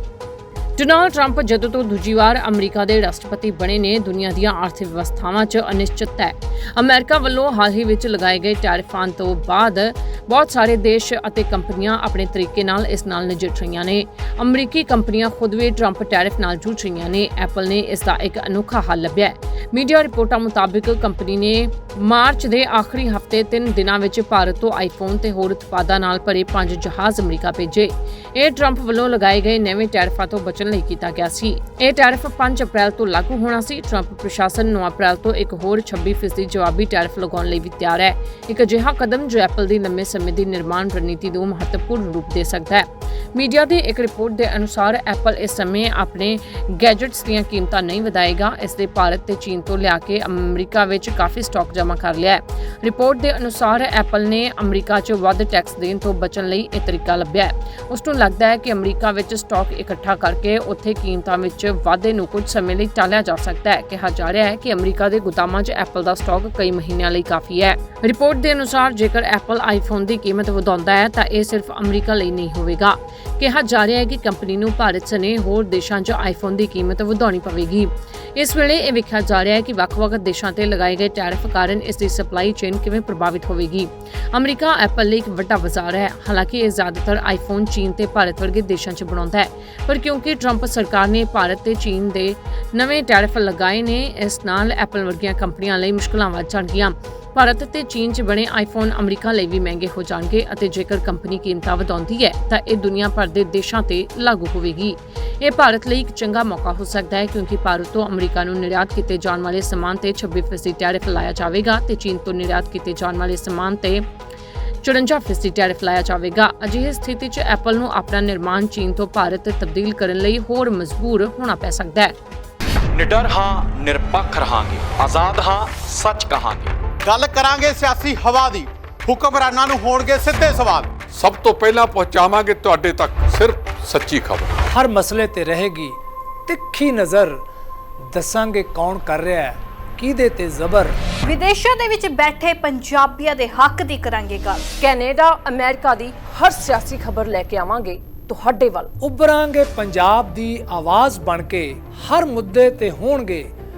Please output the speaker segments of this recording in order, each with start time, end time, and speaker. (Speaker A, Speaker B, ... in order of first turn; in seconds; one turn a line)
Speaker A: 0.8-114.0
Speaker A: 114.8-122.1
Speaker B: 122.9-126.7
Speaker C: 127.0-130.9
Speaker D: 131.1-134.5
Speaker E: 134.7-137.4
Speaker E: 138.1-141.0
Speaker F: 141.2-144.7
Speaker A: 144.8-148.9
Speaker E: 149.0-153.5